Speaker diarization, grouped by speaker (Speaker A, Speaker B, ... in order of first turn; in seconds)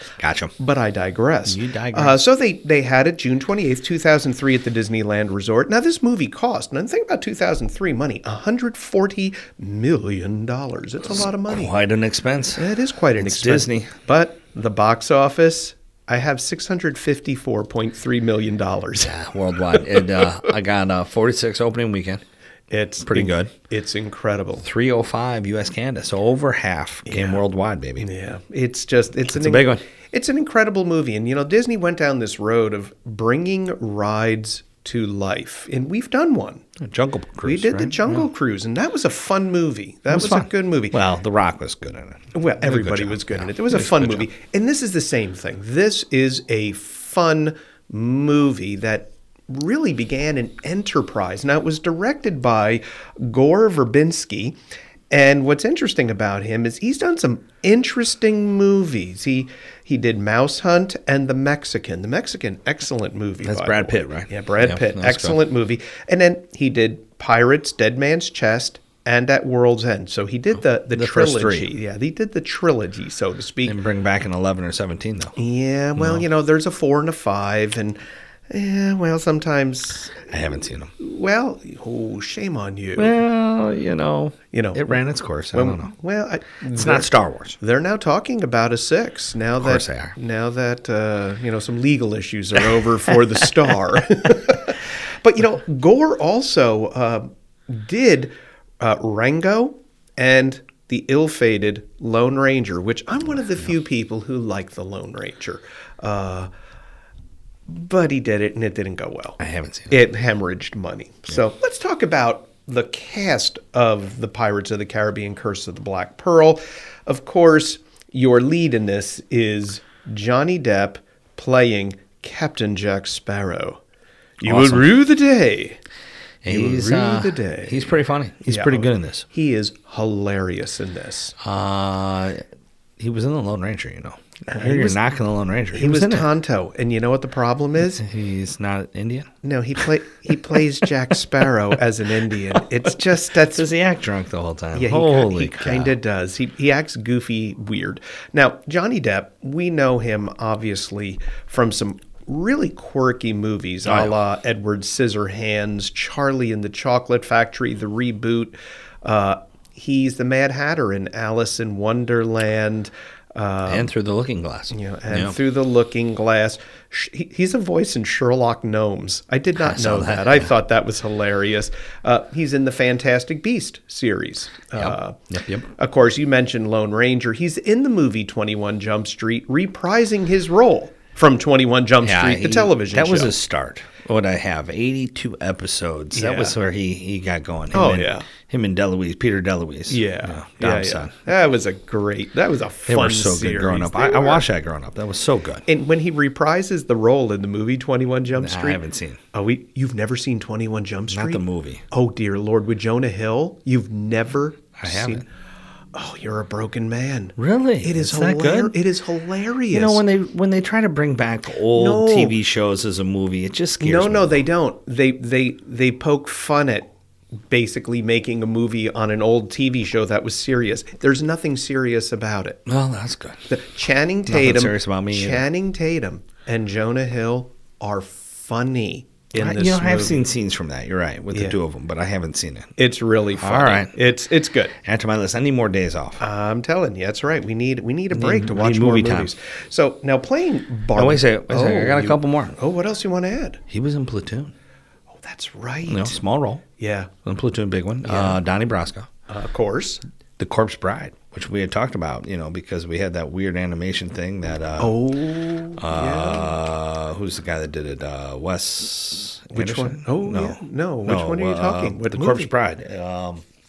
Speaker A: 0.2-0.5, 1.4-2.2, 11.5-12.6, 13.2-13.9, 19.0-22.2, 23.0-23.5, 24.6-28.1, 29.3-29.8, 36.8-38.2, 40.1-44.3, 63.4-65.4, 70.9-71.7, 73.6-75.3, 76.0-76.2, 80.3-80.9, 83.0-85.9, 86.7-87.6, 89.6-90.1, 109.4-110.0, 124.4-125.0, 126.4-129.2, 131.4-132.4, 133.0-136.3, 138.0-139.3, 143.5-145.9, 153.8-154.1, 163.7-165.4, 169.6-170.5, 174.8-175.7, 182.0-191.2, 192.9-195.7, 198.3-199.2, 201.1-201.8, 204.8-205.2, 207.4-208.7, 209.7-214.4, 222.7-223.4, 224.3-225.4, 229.3-232.7, 233.4-234.0, 234.8-236.2, 238.1-239.3, 240.9-242.6, 243.7-244.5, 245.9-246.6, 247.2-249.1, 250.4-255.0, 255.8-263.4
Speaker B: 0.6-11.7, 12.6-19.1, 19.7-20.0, 22.7-24.6, 27.1-27.4, 28.0-36.6, 37.4-41.0, 42.3-54.6, 55.1-73.8, 75.3-78.0, 78.5-80.3, 81.0-83.1, 84.5-84.9, 85.5-106.5, 107.7-123.8, 124.4-125.8, 126.5-131.3, 134.5-135.0, 135.7-138.1, 139.4-143.7, 144.7-163.9, 164.7-183.3, 186.1-186.6, 187.7-188.3, 189.9-194.4, 195.7-198.8, 199.3-205.3, 205.9-210.0, 211.7-212.4, 213.8-216.9, 217.5-222.6, 223.5-230.2, 231.3-231.6, 232.8-234.8, 236.2-243.6, 245.1-246.2, 246.8-247.1, 248.0-248.4, 249.3-250.0, 254.8-256.5, 259.5-262.5